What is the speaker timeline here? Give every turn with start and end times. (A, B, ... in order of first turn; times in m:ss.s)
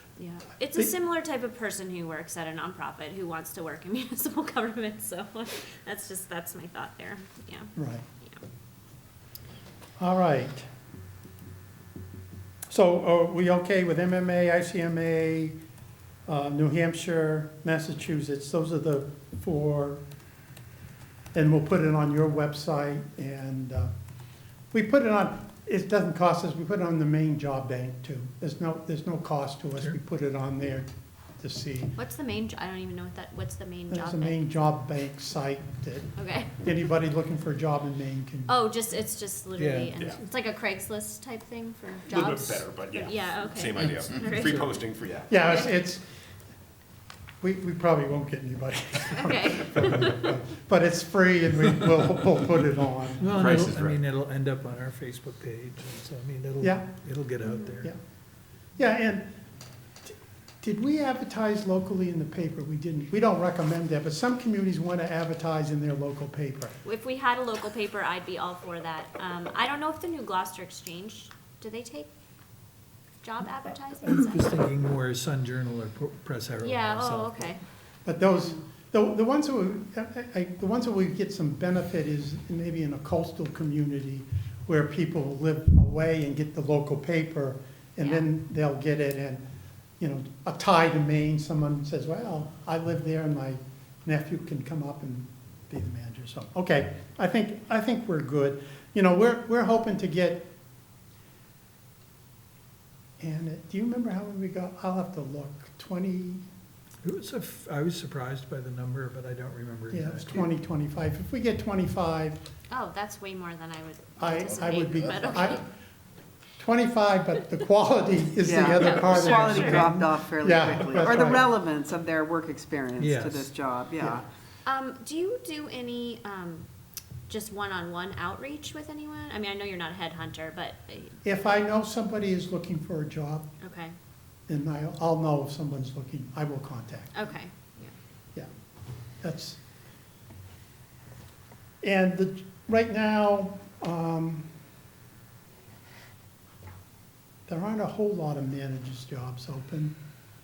0:00.2-0:08.4 A
0:07.8-0:08.0 B
0:10.0-0:10.7 B
0:12.7-0:15.6 B
0:16.3-0:20.0 B
0:21.3-0:23.9 B
0:24.7-0:30.9 B
0:31.4-0:32.0 B
0:32.0-0:34.4 A
0:33.9-0:38.5 B
0:36.2-0:36.5 A
0:38.5-0:44.9 A
0:39.6-0:39.9 C
0:42.1-0:45.3 D
0:45.3-0:46.0 B
0:45.4-0:45.7 A
0:47.4-0:53.3 B
0:49.1-0:50.3 A
0:53.2-0:57.9 C
0:53.4-0:54.0 D
0:56.6-0:56.9 B
0:58.8-0:59.3 B
1:00.1-1:06.8 B
1:06.8-1:12.1 A
1:13.2-1:14.4 A
1:14.0-1:17.6 C
1:16.6-1:17.6 A
1:18.0-1:29.4 B
1:28.0-1:28.3 A
1:30.0-1:40.5 B
1:43.2-1:46.4 B
1:47.0-1:50.5 C
1:49.9-1:52.4 B
1:52.7-1:55.6 A
1:54.2-1:55.7 B
1:56.6-2:01.4 B
1:58.4-2:04.2 E
1:58.7-1:59.9 A
2:03.0-2:03.5 C
2:04.7-2:06.7 A
2:07.3-2:11.2 A
2:11.2-2:13.5 B
2:13.6-2:13.9 A
2:14.5-2:17.3 B
2:17.1-2:17.9 A
2:19.2-2:19.6 B
2:21.8-2:24.5 B
2:27.5-2:30.0 B